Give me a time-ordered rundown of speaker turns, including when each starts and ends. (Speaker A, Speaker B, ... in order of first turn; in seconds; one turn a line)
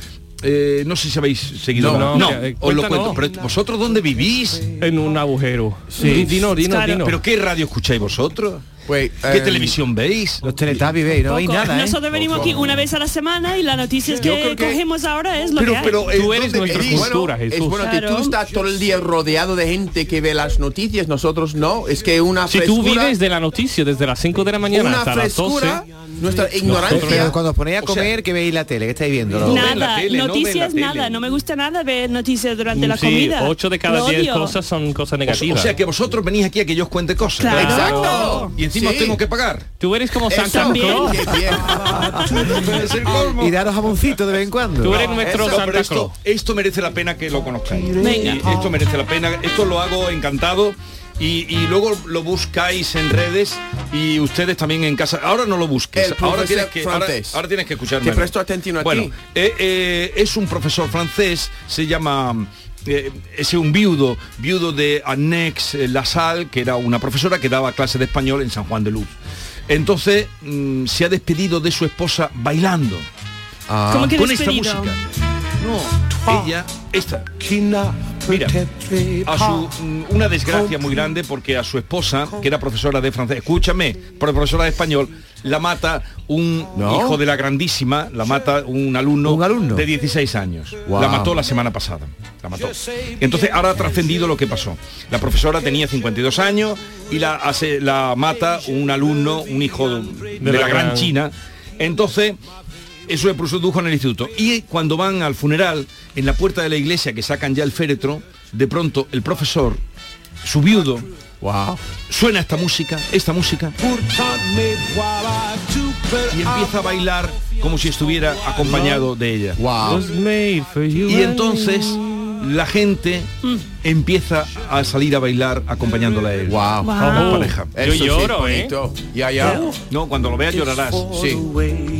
Speaker A: 0.4-4.7
Speaker B: 1.7-2.4
Speaker C: 1.8-3.2
Speaker C: 4.8-7.2
Speaker B: 5.9-6.3
Speaker D: 6.0-7.0
Speaker A: 7.0-8.6
Speaker B: 8.8-9.8
Speaker A: 9.3-10.4
Speaker E: 10.4-12.0
Speaker D: 11.2-16.0
Speaker B: 12.3-12.7
Speaker B: 14.1-14.8
Speaker A: 15.6-17.1
Speaker C: 16.0-17.9
Speaker B: 16.7-23.1
Speaker D: 17.8-18.4
Speaker C: 22.5-25.8
Speaker B: 24.7-27.4
Speaker C: 26.6-27.3
Speaker E: 26.7-29.8
Speaker A: 27.8-28.1
Speaker A: 29.4-31.2
Speaker D: 29.4-34.5
Speaker C: 32.7-35.7
Speaker A: 35.3-39.6
Speaker D: 37.4-38.5
Speaker C: 37.5-38.5
Speaker B: 37.5-39.2
Speaker C: 39.8-41.3
Speaker B: 40.3-42.5
Speaker D: 40.4-41.4
Speaker A: 42.5-43.5
Speaker E: 43.4-45.0
Speaker C: 44.8-46.1
Speaker A: 44.9-69.1
Speaker D: 48.0-48.5
Speaker B: 56.0-57.4
Speaker B: 58.0-59.1
Speaker A: 69.7-73.0
Speaker B: 73.7-74.1
Speaker D: 73.9-74.9
Speaker A: 74.0-75.0
Speaker A: 75.6-77.4
Speaker A: 78.2-78.7
Speaker A: 79.2-102.4
Speaker B: 86.8-87.2
Speaker E: 89.2-89.8
Speaker B: 90.9-91.3
Speaker C: 100.4-101.1
Speaker A: 103.1-109.8
Speaker A: 110.4-111.1
Speaker B: 111.4-111.8
Speaker A: 112.1-113.8
Speaker A: 116.2-119.6
Speaker B: 119.6-120.0
Speaker C: 119.8-122.0
Speaker A: 121.0-123.3
Speaker A: 123.8-126.6
Speaker B: 126.5-129.8
Speaker D: 126.8-127.5
Speaker C: 127.0-128.7
Speaker A: 127.2-127.7
Speaker D: 129.4-129.7
Speaker A: 129.9-131.1
Speaker B: 131.1-131.4